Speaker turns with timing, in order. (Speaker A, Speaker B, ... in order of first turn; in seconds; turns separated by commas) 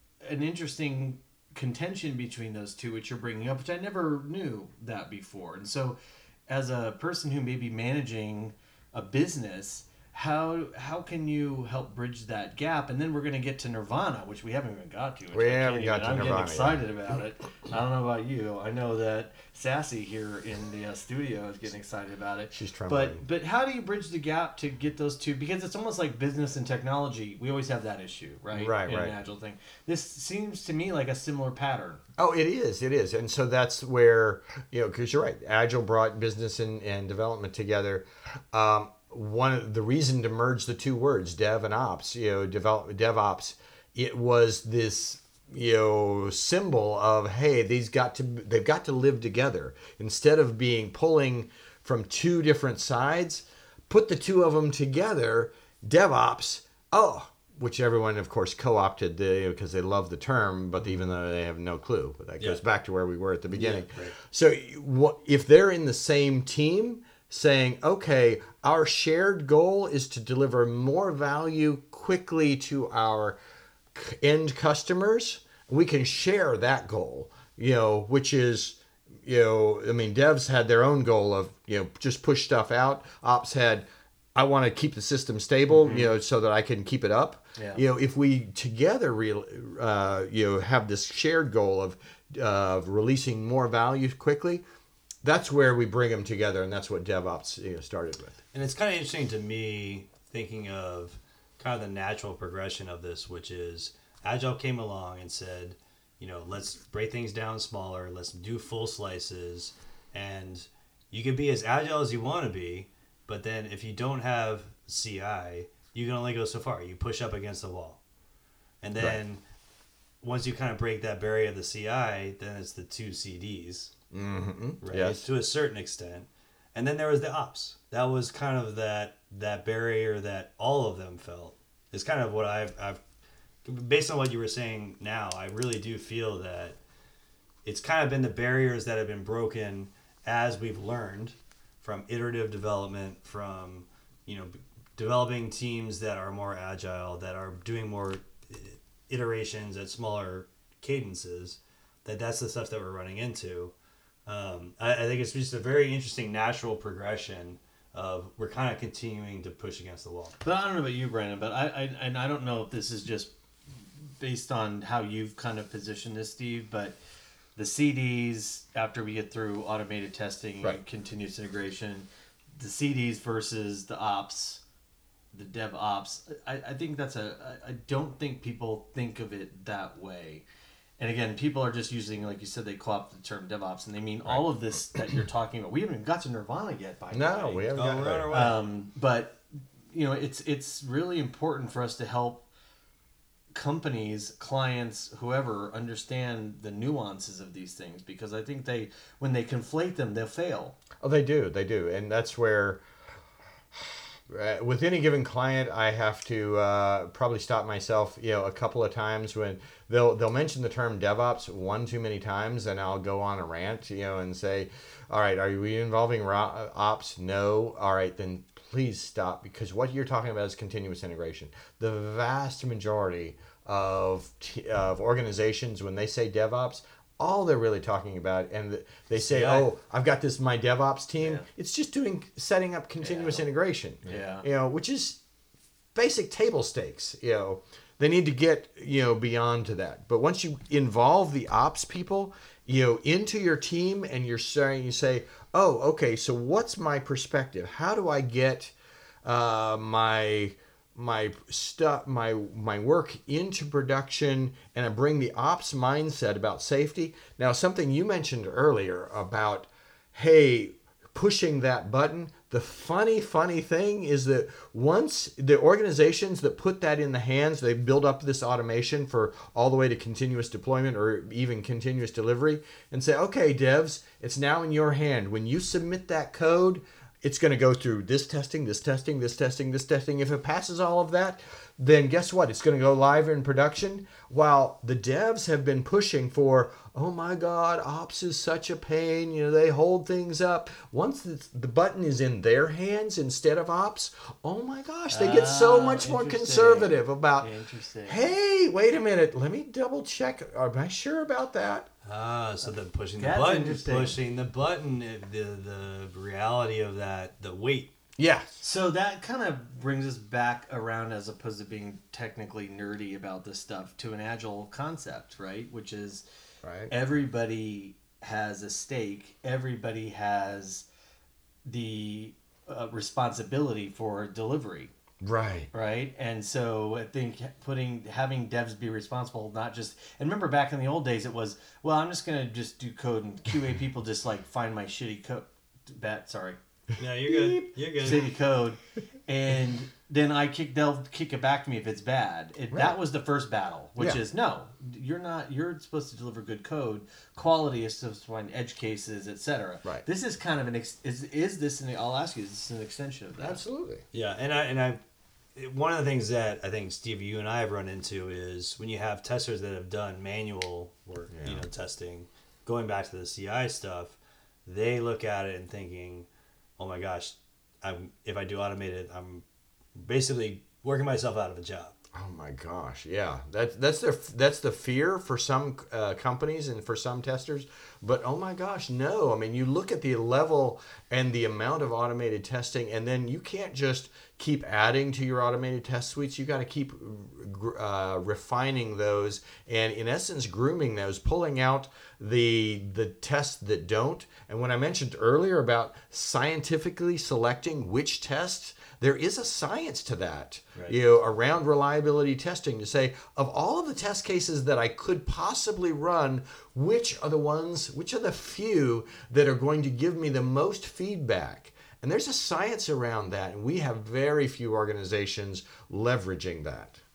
Speaker A: 0.2-32.0, Speaker B: 15.3-16.8, Speaker B: 22.5-23.2, Speaker B: 28.5-29.2, Speaker B: 32.2-73.4, Speaker C: 63.5-64.2, Speaker B: 73.9-94.6, Speaker A: 85.7-86.1, Speaker A: 87.6-87.8, Speaker B: 95.2-98.4, Speaker C: 98.5-118.0, Speaker C: 118.8-119.4, Speaker C: 120.2-123.9, Speaker B: 124.1-125.3, Speaker C: 124.8-133.0, Speaker C: 133.7-136.8, Speaker C: 137.7-153.7, Speaker C: 154.3-160.4, Speaker A: 160.4-163.3, Speaker A: 164.2-167.0, Speaker A: 167.6-172.1, Speaker A: 172.6-174.6, Speaker A: 175.3-180.4, Speaker A: 181.0-187.7, Speaker B: 187.1-188.3, Speaker C: 187.8-188.6, Speaker A: 188.3-189.4, Speaker A: 189.9-192.5, Speaker A: 193.5-200.8, Speaker B: 201.0-202.8, Speaker B: 203.7-235.2, Speaker C: 229.2-229.7, Speaker A: 231.2-231.5, Speaker A: 233.0-233.4, Speaker A: 234.1-234.4, Speaker B: 235.9-297.5, Speaker A: 295.1-298.4, Speaker B: 298.1-301.9, Speaker C: 302.1-307.9, Speaker A: 303.2-304.2, Speaker B: 308.2-308.6, Speaker A: 308.6-316.2, Speaker B: 316.6-316.9, Speaker A: 316.9-320.9, Speaker A: 321.6-324.9, Speaker B: 325.2-325.7, Speaker A: 325.7-336.6, Speaker C: 337.0-338.3, Speaker A: 338.0-353.6, Speaker B: 342.7-343.0, Speaker B: 353.4-354.1, Speaker C: 354.1-355.0, Speaker C: 355.6-366.3, Speaker B: 361.3-361.7, Speaker C: 366.8-369.4, Speaker C: 370.0-371.9, Speaker B: 372.1-417.0